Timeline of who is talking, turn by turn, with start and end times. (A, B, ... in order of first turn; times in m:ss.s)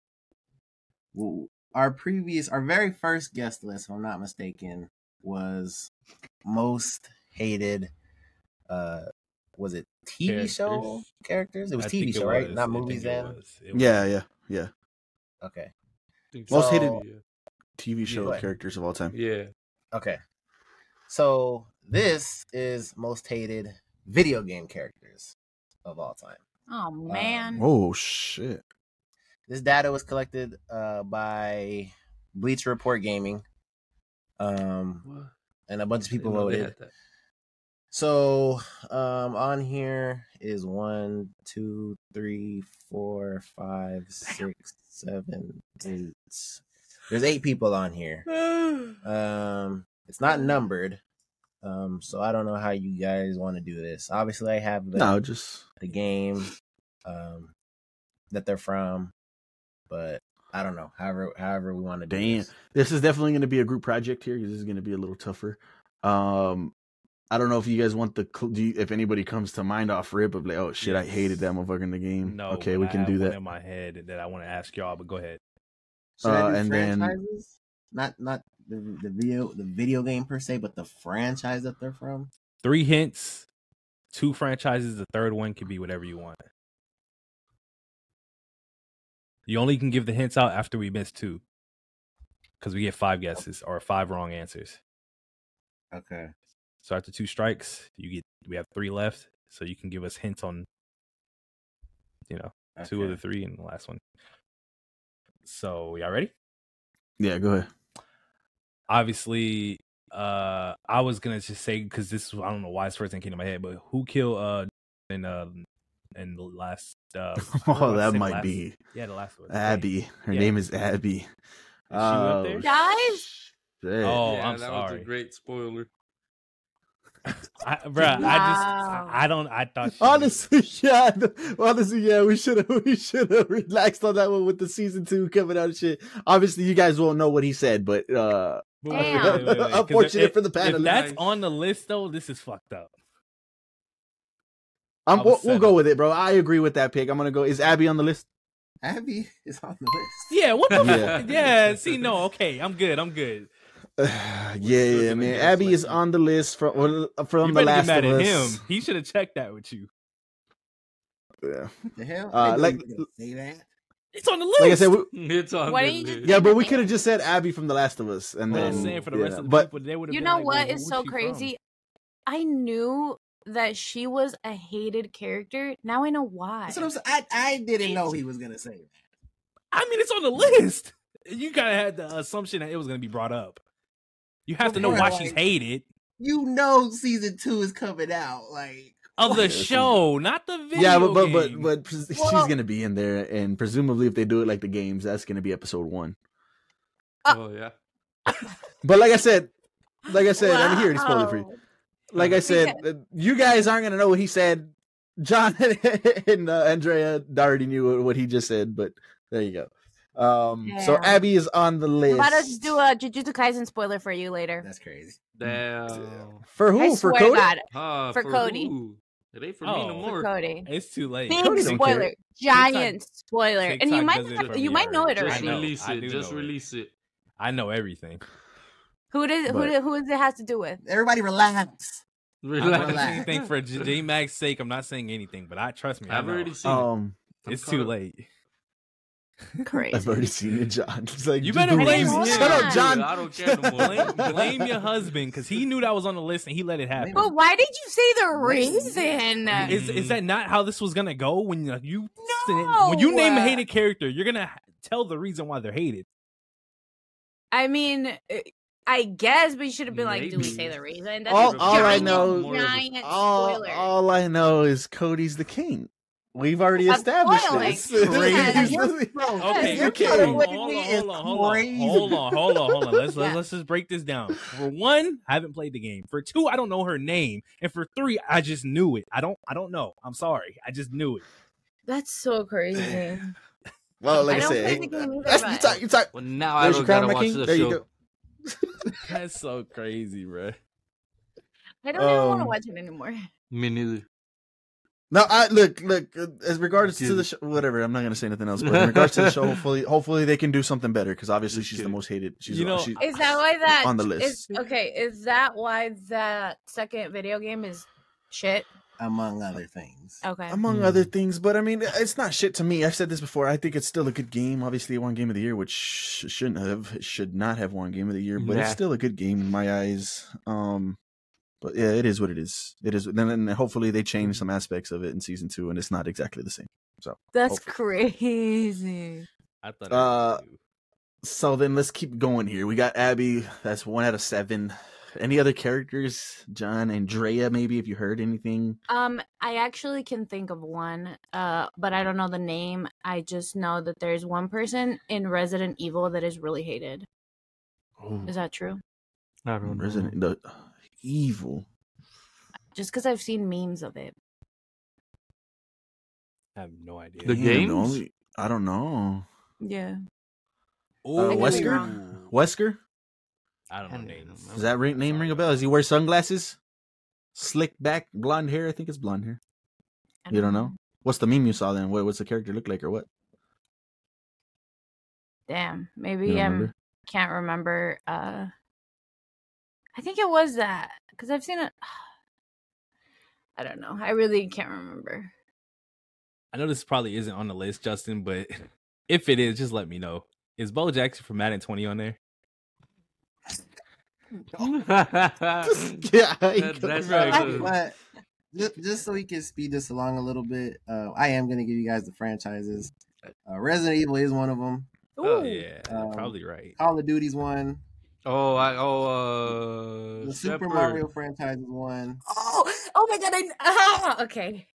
0:01.1-0:05.9 A
0:06.4-0:07.9 A
0:08.7-0:13.4 A
0:10.2-0:11.1 B
0:11.8-0:14.0 B
0:13.7-0:14.7 C
0:15.4-0:15.7 A
0:16.3-0:17.2 D
0:16.5-0:17.0 A
0:16.5-0:17.0 C
0:17.8-0:19.1 C
0:19.1-0:19.5 D
0:19.9-0:20.2 A
0:21.1-0:26.4 A
0:26.7-0:27.6 E
0:27.1-0:27.6 A
0:27.6-0:28.6 C
0:29.5-0:33.4 A
0:34.4-0:35.0 A
0:35.0-0:35.3 D
0:35.7-0:36.7 A
0:36.1-0:36.9 D
0:37.9-0:48.3 A
0:48.3-0:49.0 B
0:49.0-0:51.0 A
0:51.6-0:55.2 A
0:54.9-0:55.6 C
0:55.8-0:56.5 A
0:57.0-0:57.5 A
0:58.3-0:59.1 A
0:59.9-1:02.5 A
1:02.1-1:06.7 C
1:07.3-1:13.4 C
1:10.8-1:11.4 B
1:12.2-1:15.4 B
1:16.2-1:22.3 A
1:16.2-1:17.2 C
1:22.6-1:23.4 B
1:24.1-1:26.4 B
1:29.5-1:31.4 B
1:32.6-1:34.8 B
1:35.9-1:36.3 A
1:36.8-1:40.7 B
1:42.3-1:44.0 B
1:42.8-1:43.2 A
1:45.4-1:46.3 B
1:47.2-1:47.7 C
1:48.9-2:00.5 B
1:57.4-1:58.8 C
1:59.5-2:01.3 C
2:01.9-2:04.2 C
2:01.9-2:02.7 B
2:02.6-2:03.3 E
2:04.0-2:05.1 B
2:04.2-2:05.9 D
2:07.6-2:10.4 B
2:08.0-2:08.3 C
2:08.1-2:09.2 E
2:09.9-2:21.0 C
2:18.8-2:22.9 B
2:18.9-2:19.5 E
2:20.6-2:21.2 D
2:25.0-2:28.2 C
2:25.1-2:25.8 B
2:28.8-2:30.4 A
2:30.3-2:33.5 B
2:30.7-2:32.1 D
2:30.8-2:31.2 C
2:34.0-2:38.6 C
2:34.6-2:35.9 D
2:34.7-2:36.0 B
2:37.4-2:39.9 B
2:41.4-2:41.7 C
2:42.0-2:43.7 A
2:42.3-2:43.0 C
2:44.1-2:44.9 B
2:44.6-2:45.1 C
2:45.1-2:46.4 D
2:45.7-2:46.9 E
2:46.2-2:49.7 C
2:48.5-2:51.5 B
2:50.1-2:51.6 E
2:52.3-2:56.9 E
2:56.7-2:58.9 A
2:57.8-2:58.2 E
2:59.7-3:03.6 B
3:04.5-3:05.8 B
3:04.6-3:05.4 A
3:04.8-3:05.1 C
3:06.2-3:09.1 A
3:09.2-3:11.7 B
3:09.2-3:10.0 C
3:10.7-3:16.2 C
3:12.1-3:12.5 E
3:17.3-3:17.7 D
3:18.8-3:19.5 C
3:20.1-3:21.5 C
3:20.1-3:21.6 E
3:22.1-3:32.8 C
3:22.4-3:22.8 E
3:30.6-3:31.2 E
3:32.1-3:34.6 E
3:34.6-3:35.2 A
3:35.4-3:36.4 D
3:35.4-3:37.5 C
3:36.8-3:38.7 E
3:37.7-3:40.3 D
3:39.6-3:41.9 B
3:40.0-3:40.7 E
3:41.3-3:45.7 E
3:41.4-3:42.1 C
3:42.5-3:43.0 B
3:43.6-3:46.5 B
3:44.3-3:46.9 D
3:47.4-3:48.2 B
3:49.1-3:50.8 E
3:49.4-3:49.7 C
3:50.8-3:52.0 A
3:52.4-3:53.9 D
3:52.6-3:56.6 B
3:52.6-3:53.2 A
3:56.1-3:56.9 D
3:56.6-3:57.2 C
3:57.4-3:57.9 D
3:57.4-3:58.2 B
3:59.6-4:00.1 E
3:59.9-4:04.7 C
4:01.4-4:02.8 B
4:01.8-4:02.8 E
4:02.3-4:04.8 D
4:03.7-4:07.2 B
4:06.9-4:07.3 A
4:07.1-4:09.8 E
4:08.3-4:09.7 A
4:09.6-4:10.2 D
4:09.6-4:16.0 B
4:12.2-4:13.6 E
4:17.5-4:23.9 E
4:19.9-4:22.9 D
4:21.3-4:30.3 C
4:26.8-4:28.8 E
4:27.9-4:32.2 A
4:29.4-4:41.2 B
4:29.4-4:30.4 E
4:41.9-4:43.3 E
4:42.8-4:43.0 C
4:44.0-4:47.8 C
4:44.2-4:45.8 E
4:44.3-4:44.7 B
4:46.1-4:47.8 D
4:48.5-4:49.0 C
4:49.0-4:50.6 B
4:51.8-4:53.2 E
4:51.9-4:52.6 C
4:53.5-4:54.0 D
4:55.1-5:04.5 C
4:57.0-4:57.3 D
4:58.6-4:59.6 D
5:01.5-5:02.0 D
5:02.4-5:03.0 B
5:03.0-5:08.6 E
5:09.0-5:10.2 A
5:10.2-5:10.6 E
5:10.5-5:21.0 C
5:10.7-5:11.1 D
5:18.4-5:18.8 D
5:21.6-5:27.7 C
5:27.3-5:29.2 E
5:29.6-5:30.6 B
5:29.9-5:30.4 C
5:31.2-5:38.8 C
5:38.9-5:47.0 E
5:48.0-5:48.3 C
5:48.2-5:48.8 E
5:49.4-5:50.2 D
5:49.6-5:51.6 C
5:52.7-5:54.1 E
5:56.6-5:57.5 B
5:57.2-5:58.0 D
5:57.3-5:59.2 C
5:59.6-6:00.0 E
6:01.0-6:02.3 B
6:01.2-6:02.8 C
6:01.3-6:02.0 E
6:03.7-6:04.6 B
6:03.9-6:05.5 D
6:04.5-6:06.6 C
6:07.3-6:09.4 C
6:10.2-6:10.7 E
6:10.3-6:13.1 C
6:15.5-6:18.5 E
6:16.2-6:16.7 C
6:19.9-6:21.9 E
6:23.6-6:25.3 E
6:26.5-6:32.2 B
6:34.6-6:36.0 D
6:35.6-6:37.4 C
6:36.5-6:37.7 D
6:37.0-6:38.0 A
6:37.3-6:37.7 E
6:38.5-6:42.9 A
6:43.4-6:44.9 A
6:45.2-6:45.6 E
6:45.2-6:45.5 D
6:45.3-6:46.8 B
6:45.8-6:47.8 A
6:48.2-6:51.0 D
6:50.2-6:52.2 A
6:52.2-6:54.7 E